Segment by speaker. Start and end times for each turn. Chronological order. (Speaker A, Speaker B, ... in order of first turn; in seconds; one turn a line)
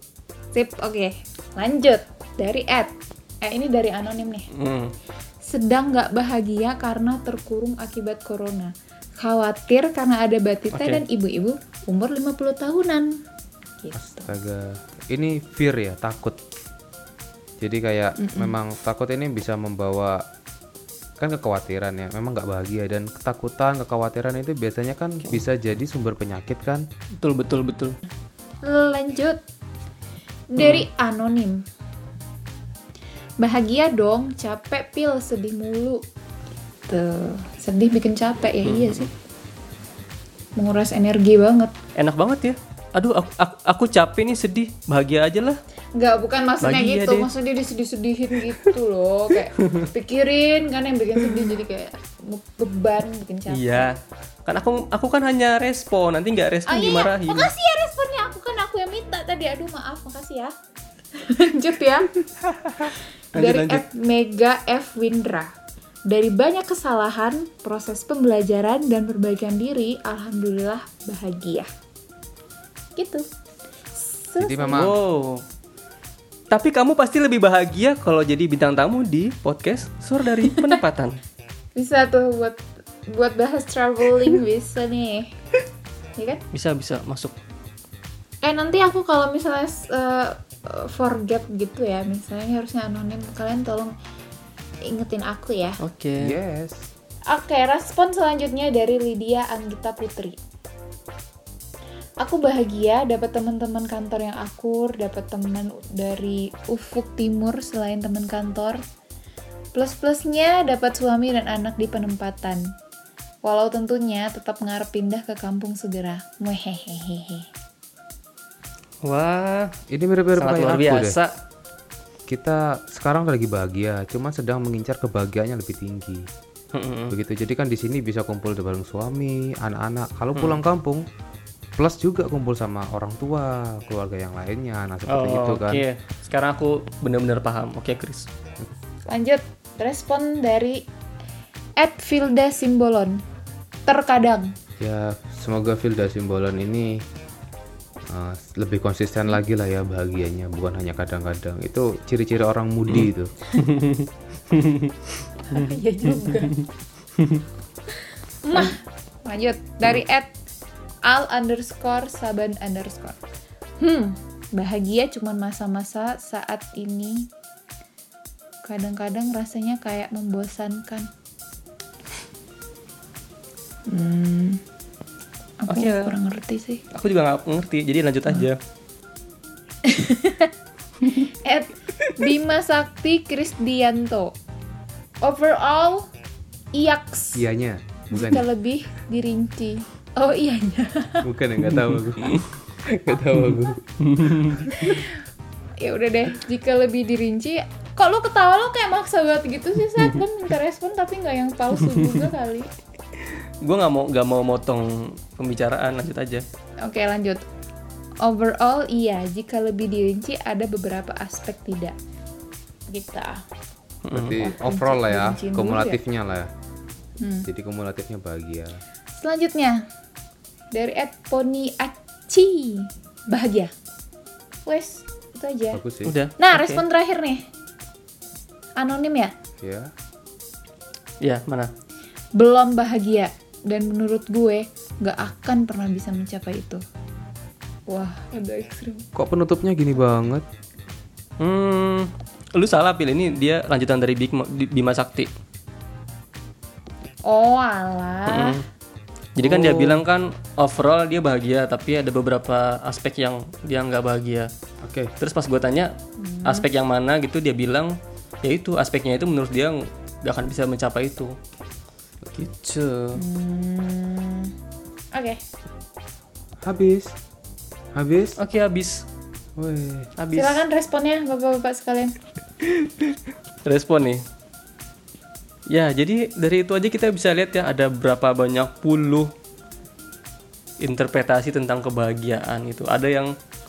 Speaker A: 0.5-2.9
Speaker A: 3.4-4.5
Speaker B: 4.5-4.9
Speaker A: 5.4-13.2
Speaker B: 10.7-11.0
Speaker A: 13.8-14.3
Speaker C: 14.0-16.4
Speaker C: 17.6-20.2
Speaker A: 18.2-18.6
Speaker C: 21.2-26.9
Speaker B: 27.2-28.0
Speaker A: 28.6-29.4
Speaker A: 30.5-31.6
Speaker B: 30.6-30.9
Speaker A: 33.4-36.0
Speaker A: 36.9-39.1
Speaker B: 38.6-39.1
Speaker A: 40.6-41.7
Speaker B: 42.0-45.6
Speaker A: 46.0-53.9
Speaker B: 46.6-47.3
Speaker B: 49.6-49.9
Speaker B: 53.5-57.5
Speaker A: 56.7-60.5
Speaker A: 61.1-62.1
Speaker A: 62.8-65.5
Speaker B: 63.3-63.8
Speaker A: 66.1-71.7
Speaker A: 73.0-73.2
Speaker A: 74.0-74.9
Speaker C: 74.4-75.0
Speaker B: 74.7-75.4
Speaker B: 76.5-81.2
Speaker A: 80.5-80.8
Speaker A: 81.8-85.3
Speaker A: 86.2-86.4
Speaker B: 86.5-87.3
Speaker A: 88.4-93.9
Speaker A: 94.8-95.8
Speaker B: 95.8-96.3
Speaker C: 96.2-96.9
Speaker A: 97.3-100.4
Speaker A: 102.2-108.8
Speaker A: 109.7-112.7
Speaker A: 113.4-117.5
Speaker B: 119.0-119.7
Speaker C: 119.9-121.2
Speaker B: 120.4-121.3
Speaker C: 122.3-126.3
Speaker B: 126.7-127.1
Speaker C: 127.1-131.1
Speaker C: 131.8-135.8
Speaker B: 135.1-138.3
Speaker A: 139.1-140.8
Speaker A: 141.8-143.2
Speaker A: 143.8-144.5
Speaker C: 144.8-147.1
Speaker C: 148.1-153.3
Speaker B: 153.6-156.7
Speaker A: 155.5-156.5
Speaker B: 157.2-157.4
Speaker A: 158.4-160.3
Speaker A: 161.1-163.2
Speaker A: 163.8-167.3
Speaker A: 168.6-171.1
Speaker A: 173.9-174.6
Speaker A: 175.6-176.8
Speaker B: 175.7-176.1
Speaker B: 176.9-178.6
Speaker A: 179.8-184.3
Speaker A: 185.2-186.1
Speaker A: 186.7-187.4
Speaker C: 187.3-188.4
Speaker A: 188.1-191.3
Speaker C: 191.2-194.5
Speaker B: 193.4-194.7
Speaker A: 194.7-195.2
Speaker A: 195.8-202.7
Speaker B: 201.9-202.2
Speaker B: 203.6-206.4
Speaker A: 206.8-207.4
Speaker A: 208.2-211.9
Speaker A: 212.9-213.4
Speaker B: 214.0-214.4
Speaker C: 214.1-216.5
Speaker A: 214.3-216.0
Speaker A: 217.2-217.5
Speaker C: 217.5-218.8
Speaker A: 219.2-219.8
Speaker A: 220.7-223.7
Speaker A: 224.7-225.8
Speaker C: 225.7-226.2
Speaker B: 226.1-226.8
Speaker A: 226.4-227.4
Speaker A: 228.8-229.3
Speaker C: 229.6-229.9
Speaker B: 231.2-231.7
Speaker A: 232.3-236.8
Speaker A: 237.9-239.0
Speaker C: 239.1-240.4
Speaker B: 241.4-245.3
Speaker A: 247.2-248.6
Speaker B: 248.3-248.6
Speaker B: 249.3-254.5
Speaker C: 249.4-250.0
Speaker C: 254.8-255.1
Speaker B: 255.2-255.9
Speaker A: 256.2-256.7
Speaker B: 256.4-261.4
Speaker B: 262.3-263.2
Speaker A: 263.2-264.5
Speaker A: 265.1-265.4
Speaker C: 266.6-267.1
Speaker C: 267.9-268.3
Speaker B: 268.4-269.1
Speaker C: 269.6-270.1
Speaker B: 270.2-270.6
Speaker A: 270.3-272.2
Speaker B: 272.6-274.2
Speaker B: 275.7-279.3
Speaker B: 280.8-283.3